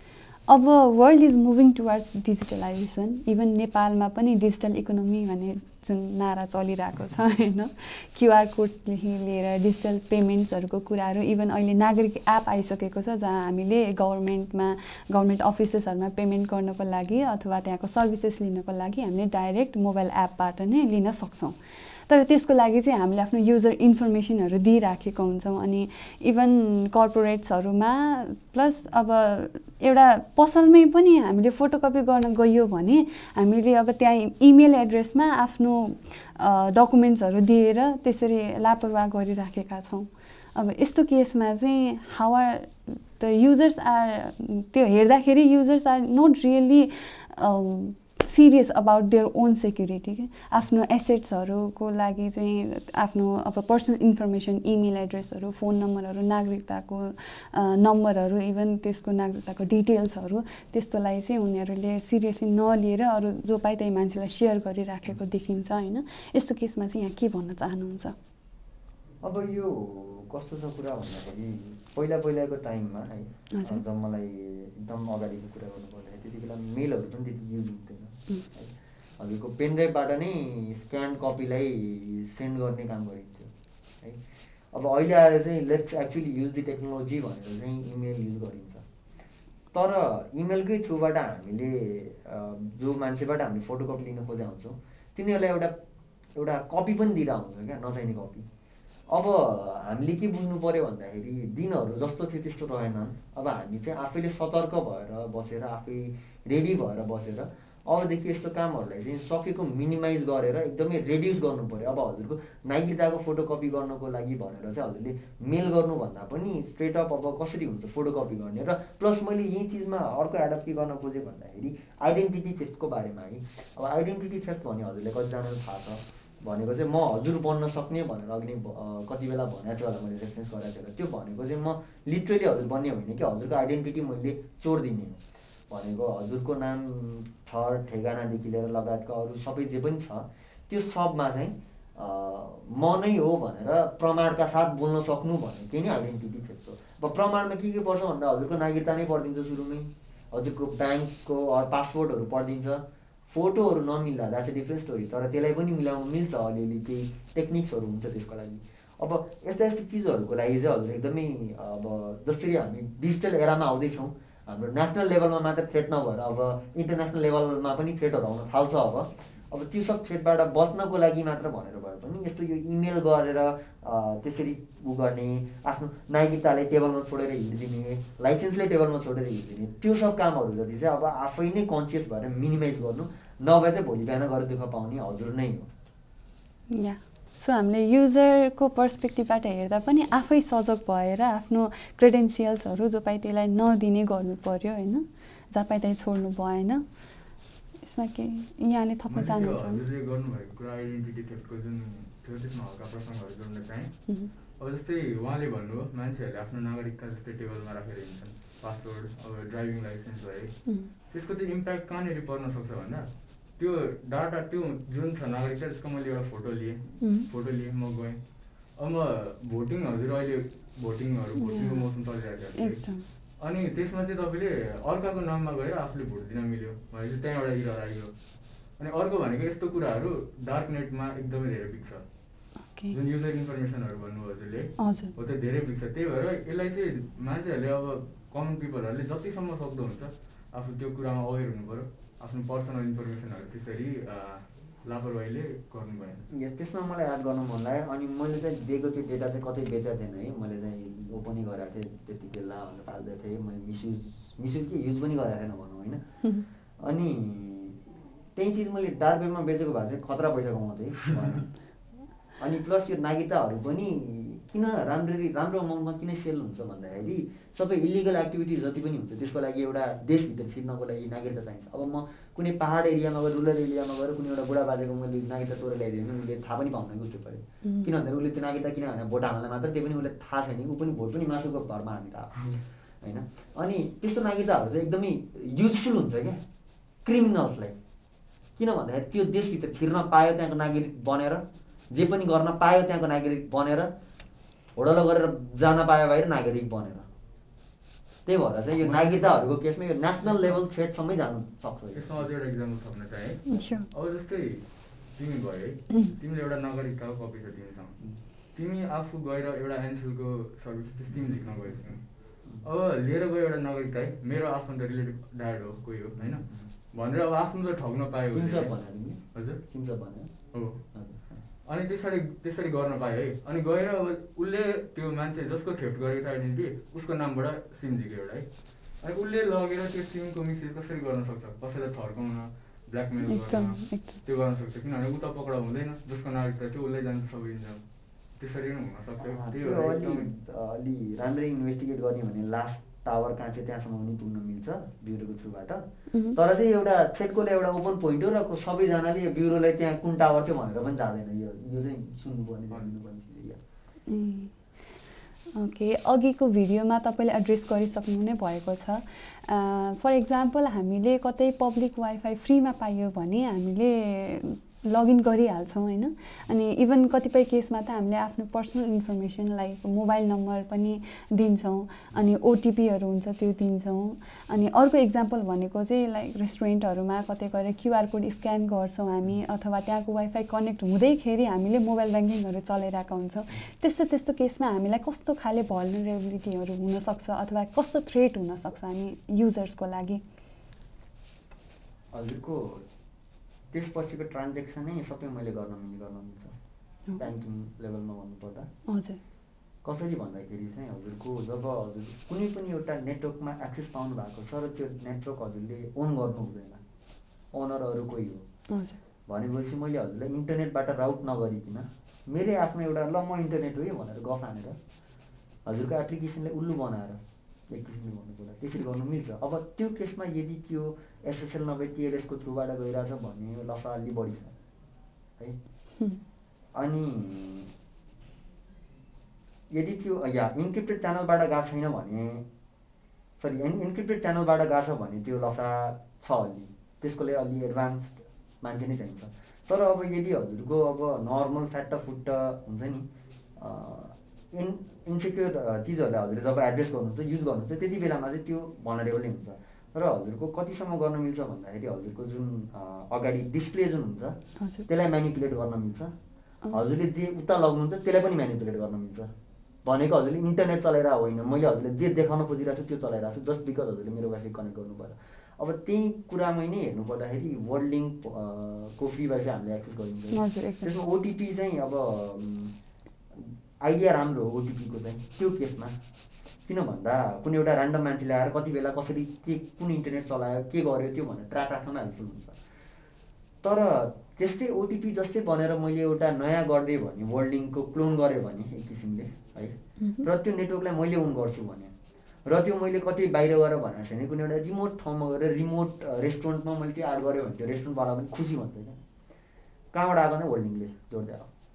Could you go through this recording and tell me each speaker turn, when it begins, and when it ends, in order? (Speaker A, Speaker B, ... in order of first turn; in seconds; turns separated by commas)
Speaker A: 0.5-68.2, Speaker B: 69.2-83.5, Speaker A: 73.5-73.8, Speaker B: 84.7-88.8, Speaker B: 89.7-95.7, Speaker B: 96.4-98.5, Speaker B: 99.1-185.7, Speaker A: 186.7-196.8, Speaker A: 197.8-199.8, Speaker C: 199.1-218.2, Speaker A: 217.0-217.3, Speaker C: 218.7-228.1, Speaker A: 221.4-221.9, Speaker A: 222.6-223.1, Speaker C: 228.8-232.1, Speaker C: 232.9-246.3, Speaker A: 234.8-235.1, Speaker B: 246.3-256.0, Speaker B: 256.8-261.5, Speaker B: 262.4-286.4, Speaker A: 277.6-277.9, Speaker B: 287.1-287.8, Speaker B: 288.6-293.9, Speaker B: 294.8-297.1, Speaker B: 298.2-302.3, Speaker C: 298.8-299.5, Speaker C: 300.2-300.6, Speaker C: 301.9-318.8, Speaker A: 303.5-303.9, Speaker B: 316.2-316.7, Speaker B: 318.3-320.3, Speaker C: 319.3-319.6, Speaker C: 320.5-320.9, Speaker B: 320.9-321.4, Speaker C: 321.6-328.5, Speaker C: 329.0-337.8, Speaker A: 333.3-334.1, Speaker C: 338.4-340.3, Speaker B: 339.2-345.8, Speaker B: 346.3-353.6, Speaker A: 354.1-354.6, Speaker A: 355.5-390.2, Speaker B: 392.1-392.9, Speaker B: 393.7-396.6, Speaker B: 397.2-398.7, Speaker A: 398.9-399.2, Speaker B: 399.8-406.8, Speaker B: 407.5-408.4, Speaker A: 408.7-409.0, Speaker B: 409.3-414.8, Speaker B: 415.6-424.5, Speaker B: 426.8-427.7, Speaker B: 429.7-432.4, Speaker B: 433.4-456.1, Speaker A: 454.6-454.9, Speaker B: 456.7-459.3, Speaker B: 459.9-472.7, Speaker A: 470.3-470.9, Speaker B: 473.3-475.9, Speaker B: 476.7-482.6, Speaker B: 483.6-491.9, Speaker A: 490.0-490.3, Speaker B: 492.5-499.0, Speaker B: 499.9-501.5